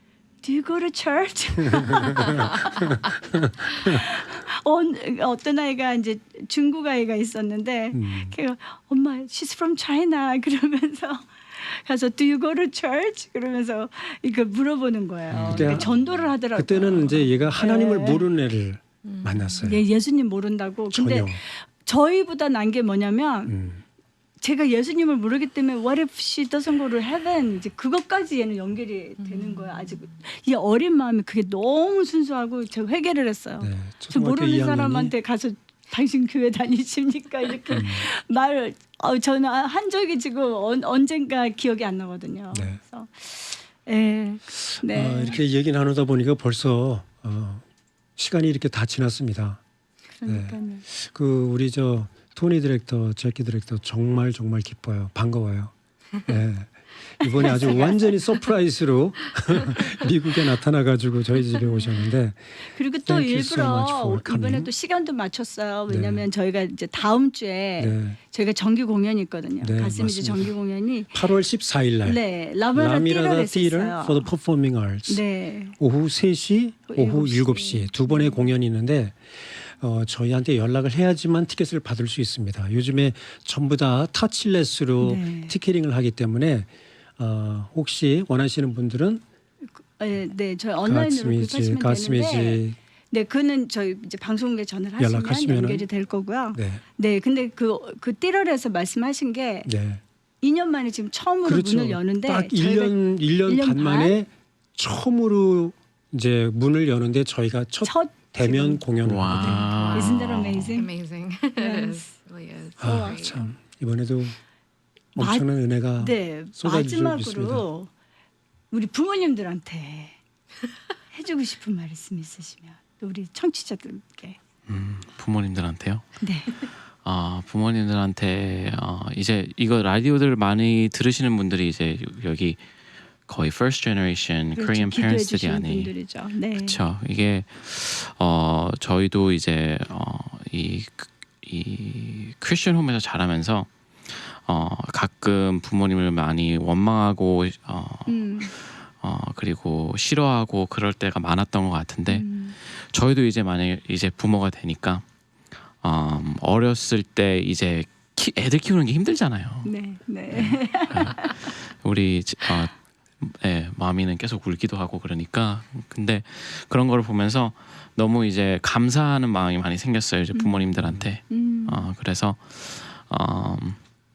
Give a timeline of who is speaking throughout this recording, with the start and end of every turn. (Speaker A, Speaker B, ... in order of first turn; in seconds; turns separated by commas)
Speaker A: 0.4-3.0, Speaker B: 2.8-4.0, Speaker A: 3.8-18.2, Speaker B: 7.9-8.3, Speaker C: 15.3-16.3, Speaker B: 15.3-15.9, Speaker B: 16.5-19.8, Speaker D: 19.0-19.6, Speaker A: 19.6-23.5, Speaker B: 20.9-21.4, Speaker B: 23.5-23.8, Speaker A: 24.4-45.4, Speaker D: 29.2-29.8, Speaker B: 33.6-35.1, Speaker B: 37.7-38.0, Speaker B: 42.5-42.8, Speaker B: 44.9-47.6, Speaker B: 48.2-49.6, Speaker A: 50.2-50.8, Speaker B: 50.3-55.7, Speaker B: 56.2-62.5, Speaker A: 57.4-58.1, Speaker A: 62.7-71.1, Speaker B: 63.0-64.7, Speaker B: 65.9-66.2, Speaker B: 67.8-68.2, Speaker B: 69.6-70.5, Speaker B: 71.1-72.2, Speaker A: 72.0-74.3, Speaker B: 72.7-75.2, Speaker A: 75.1-75.8, Speaker B: 75.8-89.2, Speaker A: 76.9-78.5, Speaker A: 85.0-85.5, Speaker A: 89.8-99.7, Speaker B: 90.8-92.8, Speaker B: 95.0-95.8, Speaker B: 96.5-96.8, Speaker B: 99.7-100.0, Speaker A: 100.4-104.1, Speaker B: 101.4-109.6, Speaker A: 107.8-108.8, Speaker C: 109.0-110.8, Speaker A: 109.3-110.9, Speaker D: 109.4-113.5, Speaker A: 111.6-112.1, Speaker B: 112.8-114.4, Speaker A: 112.8-113.2, Speaker B: 115.1-117.7, Speaker A: 115.2-115.5, Speaker A: 116.0-117.9, Speaker A: 118.7-120.2, Speaker A: 121.1-124.4, Speaker C: 124.7-132.6, Speaker A: 126.2-126.5, Speaker C: 133.2-135.9, Speaker A: 134.5-136.8, Speaker C: 136.5-155.0, Speaker A: 148.1-148.5, Speaker A: 152.1-152.6, Speaker C: 155.8-159.7, Speaker A: 159.6-161.5, Speaker C: 160.3-173.8, Speaker A: 170.3-171.8